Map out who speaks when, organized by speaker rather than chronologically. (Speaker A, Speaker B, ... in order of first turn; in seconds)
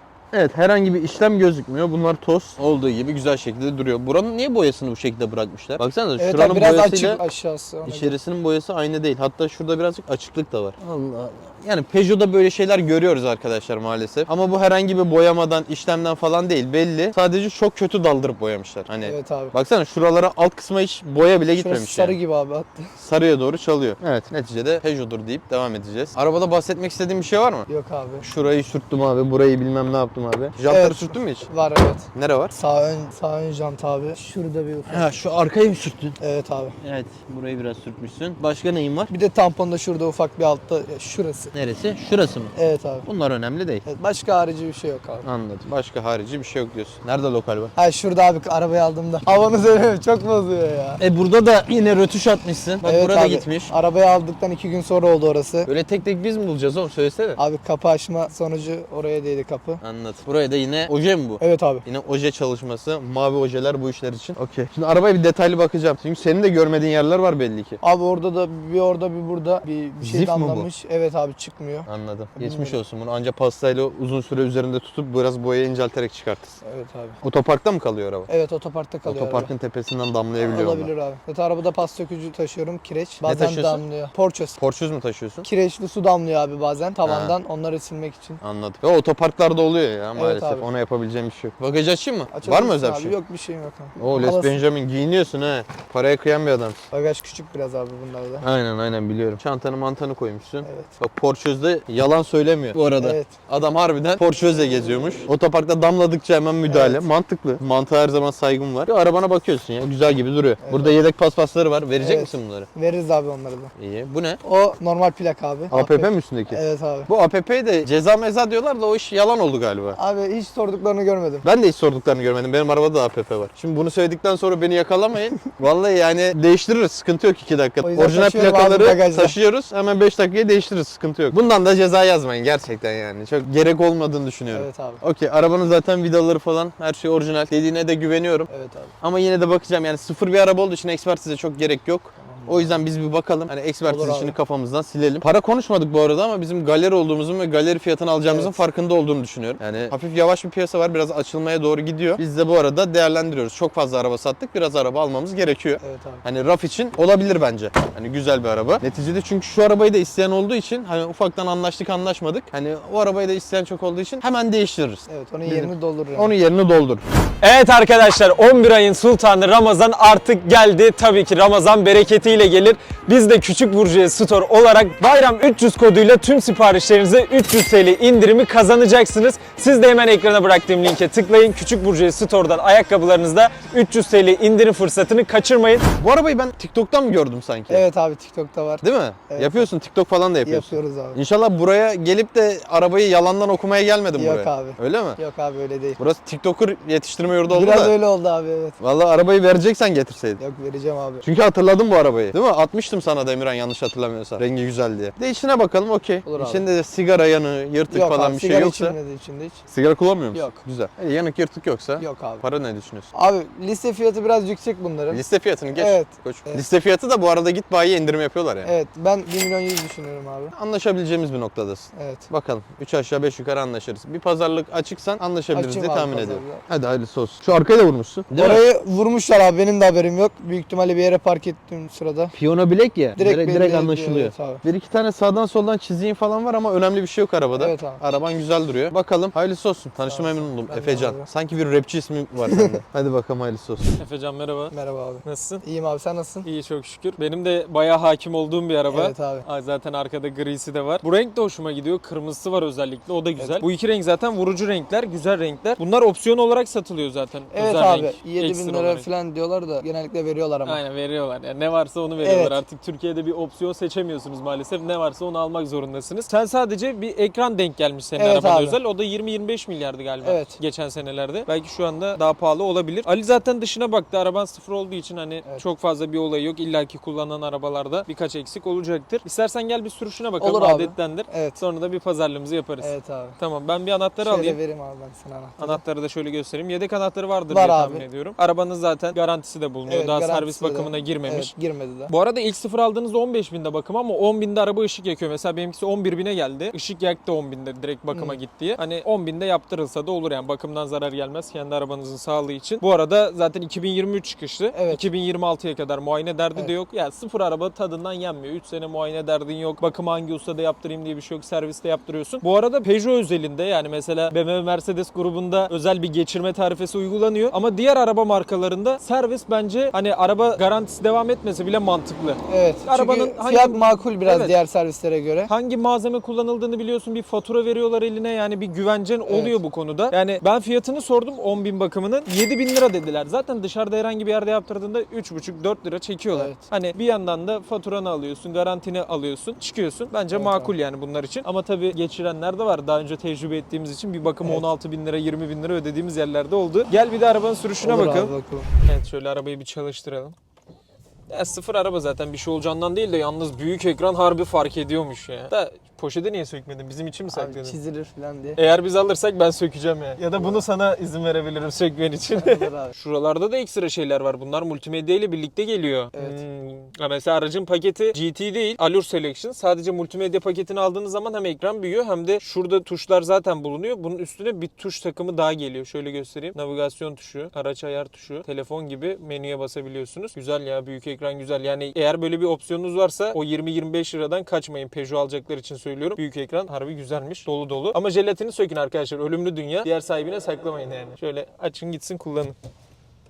Speaker A: 0.3-7.2, 7.8-22.2, 23.0-27.7, 28.2-31.5, 32.1-32.6, 34.9-36.2, 36.8-39.1, 41.5-42.5, 43.0-43.9, 45.2-47.7, 51.0-53.7, 55.7-57.4, 59.8-67.8, 70.0-70.7, 71.9-76.5, 77.2-78.3, 79.0-80.9, 83.2-83.8, 84.6-85.5, 87.1-87.3, 88.4-93.2, 94.0-96.8, 98.4-112.7, 113.8-114.4, 115.7-120.0, 121.4-138.5, 139.0-167.0, 186.0-187.8, 188.8-195.2, 196.0-197.9, 198.8-200.4, 201.2-209.0, 209.7-213.1, 215.1-218.7, 220.5-228.7, 232.3-244.0
Speaker B: 6.2-8.2, 19.0-19.5, 21.6-22.8, 27.7-28.2, 30.7-35.1, 36.2-36.8, 39.1-41.5, 42.5-43.1, 43.9-45.3, 47.8-51.0, 52.8-55.7, 57.4-59.8, 61.4-61.9, 67.8-72.8, 76.6-77.2, 78.3-79.5, 80.4-84.6, 85.4-88.4, 90.2-90.7, 92.3-94.6, 96.9-98.5, 100.6-100.9, 103.0-103.4, 106.7-107.1, 110.6-111.0, 112.0-113.7, 114.4-117.1, 120.0-121.5, 127.8-129.3, 134.5-135.0, 138.5-138.9, 142.2-142.8, 143.9-144.4, 148.2-148.6, 155.8-156.2, 165.1-166.3, 187.7-189.7, 190.4-191.2, 194.2-196.0, 197.5-198.8, 200.4-201.2, 206.2-206.7, 207.9-209.6, 210.3-210.6, 212.0-212.4, 213.1-216.7, 218.6-220.5, 221.9-222.3, 225.5-226.6, 228.3-232.3, 233.2-234.6, 237.6-238.0, 240.1-241.3, 242.5-242.8, 244.7-246.5, 248.9-249.4, 253.4-253.6, 257.5-260.8, 262.2-262.6, 268.2-268.8, 270.2-270.6, 280.4-281.6, 282.8-283.4, 284.2-285.8, 287.5-288.1, 289.9-292.1, 298.1-298.4, 304.7-305.0, 322.5-325.5, 329.3-329.6, 336.3-336.6, 340.3-340.8, 347.8-348.7, 357.3-358.6, 360.4-360.7, 362.4-362.9, 366.1-366.4
Speaker C: 167.4-185.9, 244.0-245.6, 246.4-259.1, 260.6-284.6, 285.6-291.5, 292.1-324.5, 325.5-350.4, 351.3-357.8, 358.6-392.6